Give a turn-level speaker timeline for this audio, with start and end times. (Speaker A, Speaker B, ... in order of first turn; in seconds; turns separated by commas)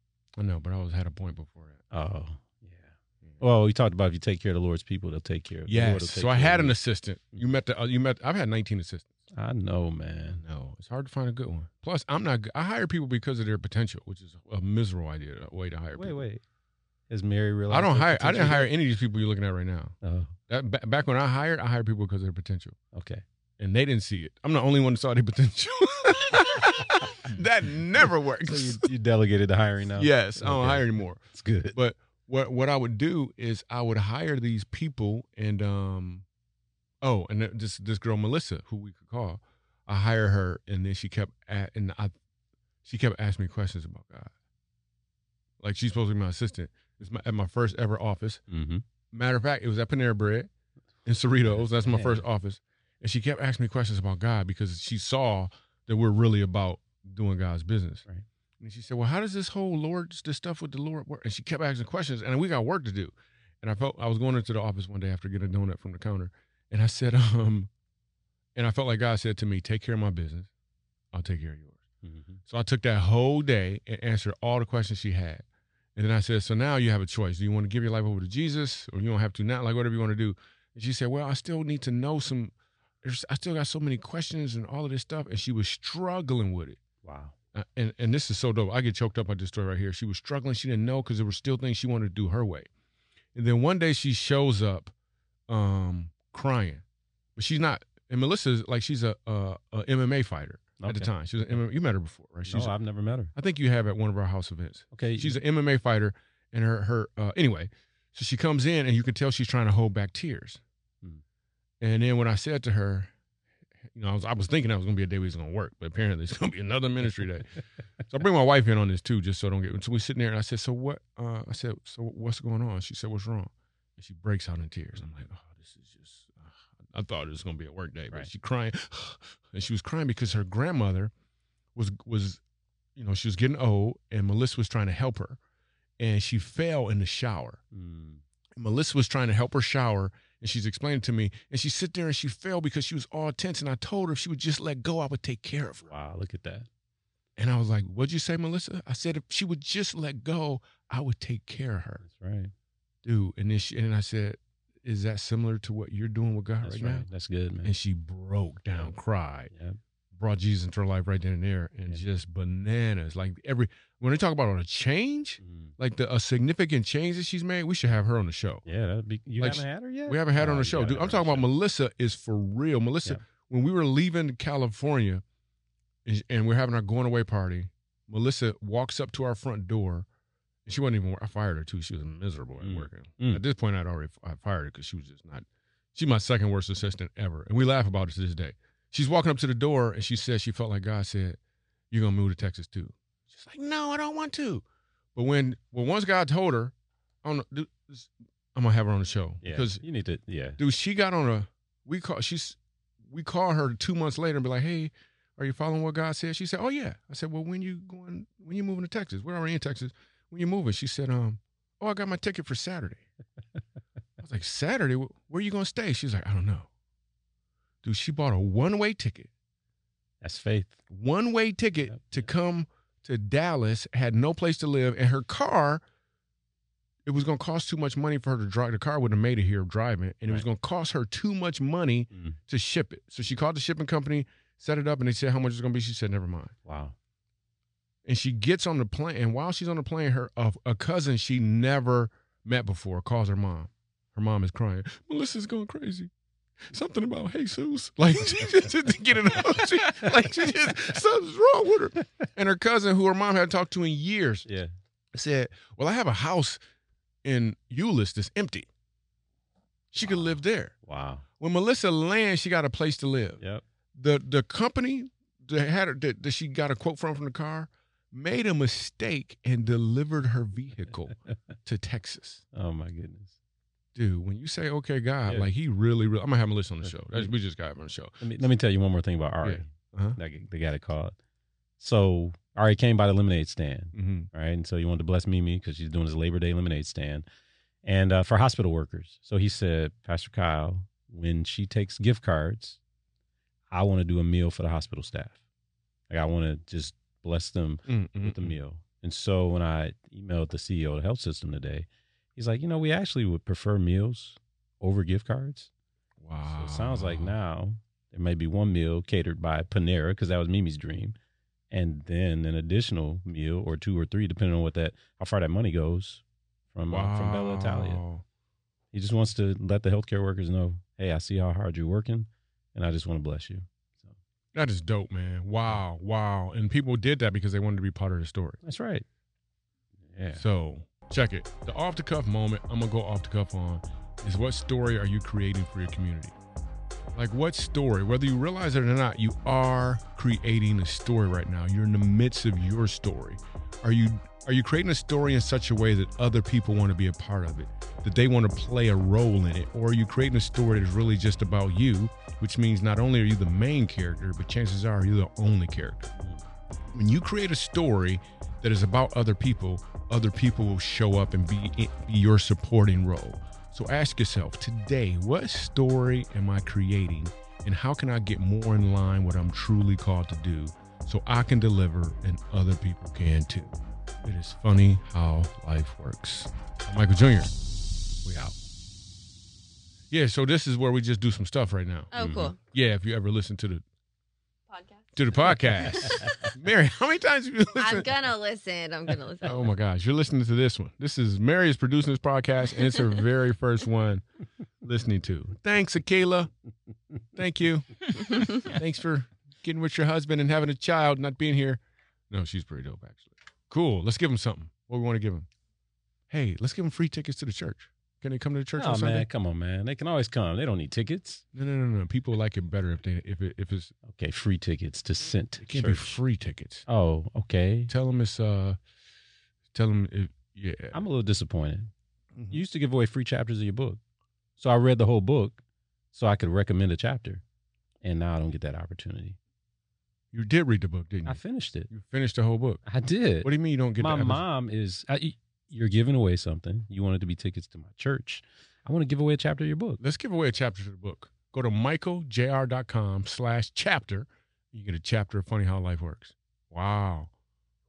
Speaker A: 0.4-1.8, Speaker B: 1.9-6.8, Speaker A: 5.7-9.1, Speaker B: 9.3-10.4, Speaker A: 10.3-16.3, Speaker B: 15.9-16.4, Speaker B: 17.1-18.7, Speaker A: 17.7-19.9, Speaker B: 20.0-20.4, Speaker A: 20.5-22.8, Speaker B: 22.9-23.2, Speaker A: 23.6-28.9, Speaker B: 28.4-31.8, Speaker A: 30.0-31.2, Speaker A: 31.7-36.2, Speaker A: 37.0-42.1, Speaker A: 42.8-44.3, Speaker A: 45.6-48.4, Speaker B: 48.5-48.8, Speaker A: 49.1-50.5, Speaker A: 51.0-58.0, Speaker B: 51.4-52.2, Speaker A: 58.6-67.7, Speaker A: 68.5-70.5, Speaker A: 71.1-71.8, Speaker B: 72.0-72.4, Speaker A: 72.5-75.5, Speaker A: 76.0-86.8, Speaker B: 87.0-87.3, Speaker A: 87.5-92.7, Speaker A: 93.3-94.9, Speaker A: 95.5-96.8, Speaker A: 97.4-102.8, Speaker B: 100.8-101.6, Speaker B: 102.5-103.3, Speaker A: 103.3-110.6, Speaker B: 104.9-105.3, Speaker A: 111.8-113.1, Speaker A: 113.9-117.6, Speaker A: 118.1-131.1, Speaker A: 131.8-132.4, Speaker A: 133.0-135.4, Speaker A: 136.0-137.6, Speaker B: 137.7-138.2, Speaker A: 138.6-145.9, Speaker B: 145.8-146.7, Speaker A: 147.4-152.0, Speaker B: 152.0-152.5, Speaker A: 153.0-157.1, Speaker B: 156.6-157.8, Speaker A: 157.6-159.5, Speaker B: 159.5-159.8, Speaker A: 160.1-168.7, Speaker B: 165.4-165.7, Speaker B: 168.7-171.5, Speaker A: 169.4-175.2, Speaker A: 176.1-180.1, Speaker A: 180.7-191.4, Speaker B: 182.6-183.4, Speaker A: 191.9-194.6, Speaker A: 195.2-199.8, Speaker B: 199.4-200.6, Speaker A: 200.6-202.6, Speaker A: 203.1-213.1, Speaker A: 214.2-216.7, Speaker A: 217.8-219.3, Speaker B: 220.2-220.8, Speaker A: 220.9-225.8, Speaker B: 221.9-222.3, Speaker A: 227.1-236.5, Speaker B: 232.1-232.4, Speaker B: 236.7-236.9, Speaker A: 238.1-246.1, Speaker A: 246.7-254.5, Speaker B: 254.5-254.7, Speaker A: 255.1-256.6, Speaker A: 257.2-258.7, Speaker A: 259.9-260.7, Speaker B: 260.0-261.2, Speaker A: 261.4-263.4, Speaker A: 263.9-272.4, Speaker B: 272.5-273.4, Speaker A: 273.9-278.2, Speaker B: 276.8-277.4, Speaker B: 278.2-281.2, Speaker A: 279.4-280.2, Speaker B: 281.8-287.3, Speaker A: 283.9-284.3, Speaker B: 287.8-292.8, Speaker B: 293.7-295.4, Speaker B: 296.1-305.7, Speaker A: 297.9-298.6, Speaker A: 306.2-307.4, Speaker B: 306.4-311.2, Speaker B: 311.7-316.2, Speaker B: 316.7-318.0, Speaker A: 316.9-318.2, Speaker B: 318.9-324.1, Speaker A: 324.5-328.6, Speaker B: 328.6-329.1, Speaker B: 330.1-330.4, Speaker A: 330.3-336.4, Speaker A: 337.1-356.1, Speaker A: 356.9-377.5, Speaker A: 378.2-378.6, Speaker A: 380.1-383.8, Speaker C: 382.1-382.6, Speaker B: 382.1-382.5, Speaker C: 384.7-385.7, Speaker A: 385.2-388.1, Speaker B: 385.9-386.5, Speaker C: 387.8-389.7, Speaker A: 389.4-394.2, Speaker A: 394.8-396.5, Speaker A: 397.4-405.5, Speaker A: 406.3-409.3, Speaker B: 408.8-411.4, Speaker A: 411.5-413.9, Speaker B: 414.0-416.2, Speaker A: 415.6-416.9, Speaker B: 416.9-417.9, Speaker A: 417.9-418.8, Speaker A: 419.7-421.0, Speaker B: 420.9-421.9, Speaker A: 422.4-422.6, Speaker B: 422.5-424.0, Speaker B: 424.6-425.6, Speaker B: 426.1-427.4, Speaker B: 428.0-429.4, Speaker A: 430.3-432.8, Speaker B: 431.3-431.9, Speaker B: 432.8-440.0, Speaker A: 433.4-434.4, Speaker A: 440.0-447.3